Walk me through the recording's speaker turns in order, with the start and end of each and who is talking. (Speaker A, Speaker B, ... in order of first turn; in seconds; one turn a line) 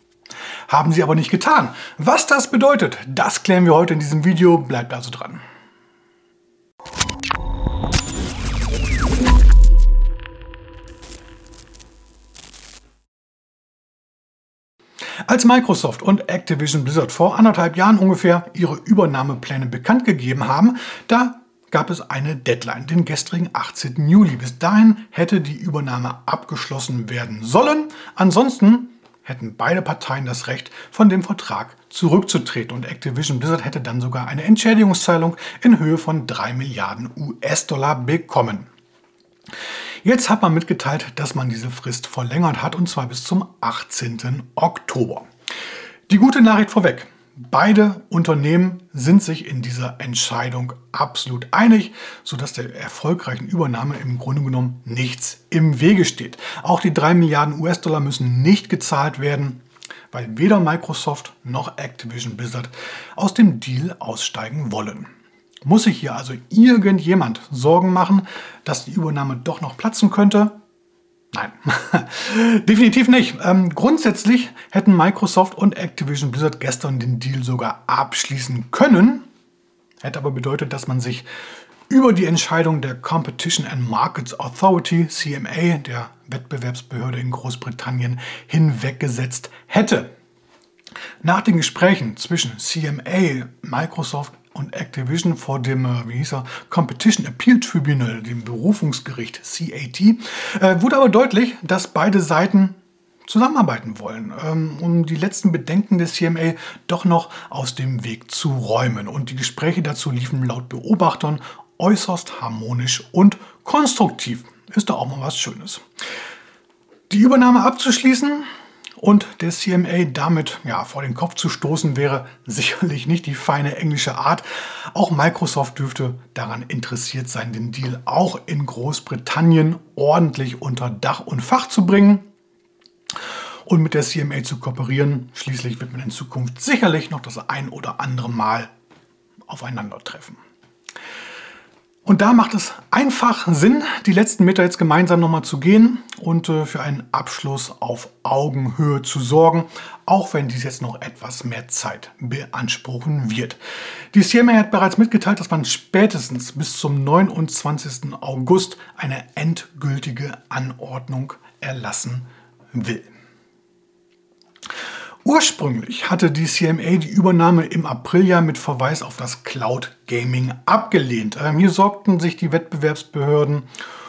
Speaker A: 0.7-5.4
Speaker A: 15.3-38.7
Speaker A: 40.0-45.3
Speaker A: 46.1-65.1
Speaker A: 65.6-70.5
Speaker A: 71.3-79.2
Speaker A: 80.0-81.3
Speaker A: 81.9-90.1
Speaker A: 91.2-115.8
Speaker A: 117.1-118.5
Speaker A: 119.0-132.2
Speaker A: 133.7-138.7
Speaker A: 139.5-140.4
Speaker A: 142.0-153.6
Speaker A: 154.1-163.1
Speaker A: 165.2-173.7